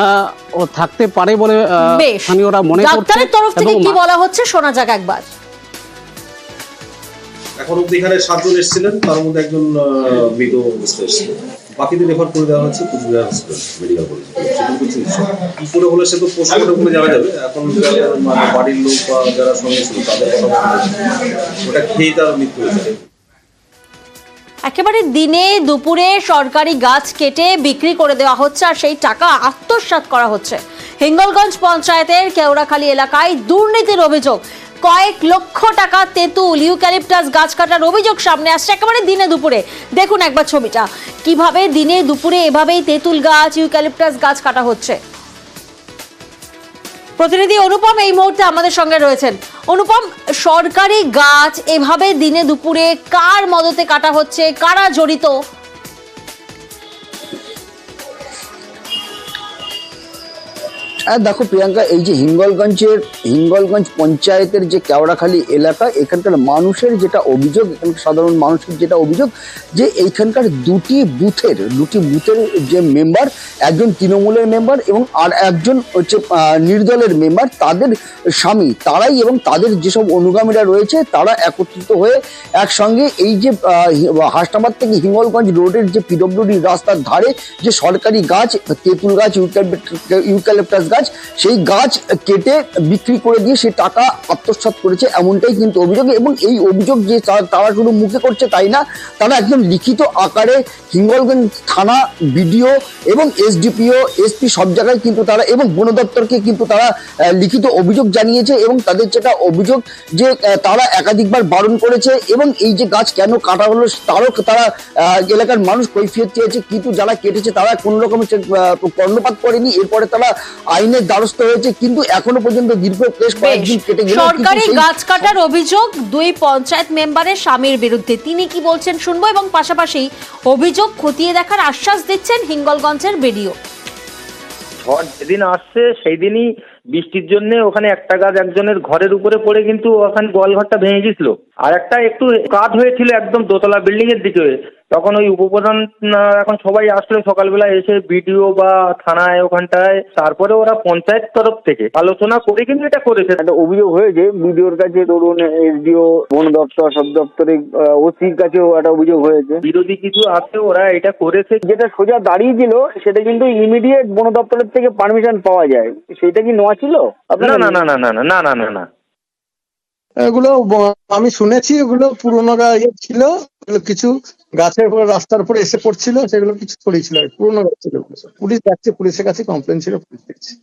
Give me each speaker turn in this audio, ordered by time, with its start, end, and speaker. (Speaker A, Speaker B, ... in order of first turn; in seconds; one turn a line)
Speaker A: 0.6-4.0
Speaker B: 1.9-5.3
Speaker C: 7.6-21.0
Speaker C: 21.6-23.0
Speaker B: 24.7-45.0
Speaker B: 47.2-55.3
Speaker D: 61.1-125.3
Speaker B: 123.4-133.6
Speaker E: 134.8-153.4
Speaker F: 153.4-159.6
Speaker E: 159.6-161.6
Speaker F: 161.7-167.7
Speaker E: 167.3-168.9
Speaker G: 170.3-174.1
Speaker C: 171.1-173.2
Speaker G: 174.6-180.5
Speaker C: 174.7-176.9
Speaker C: 178.8-179.4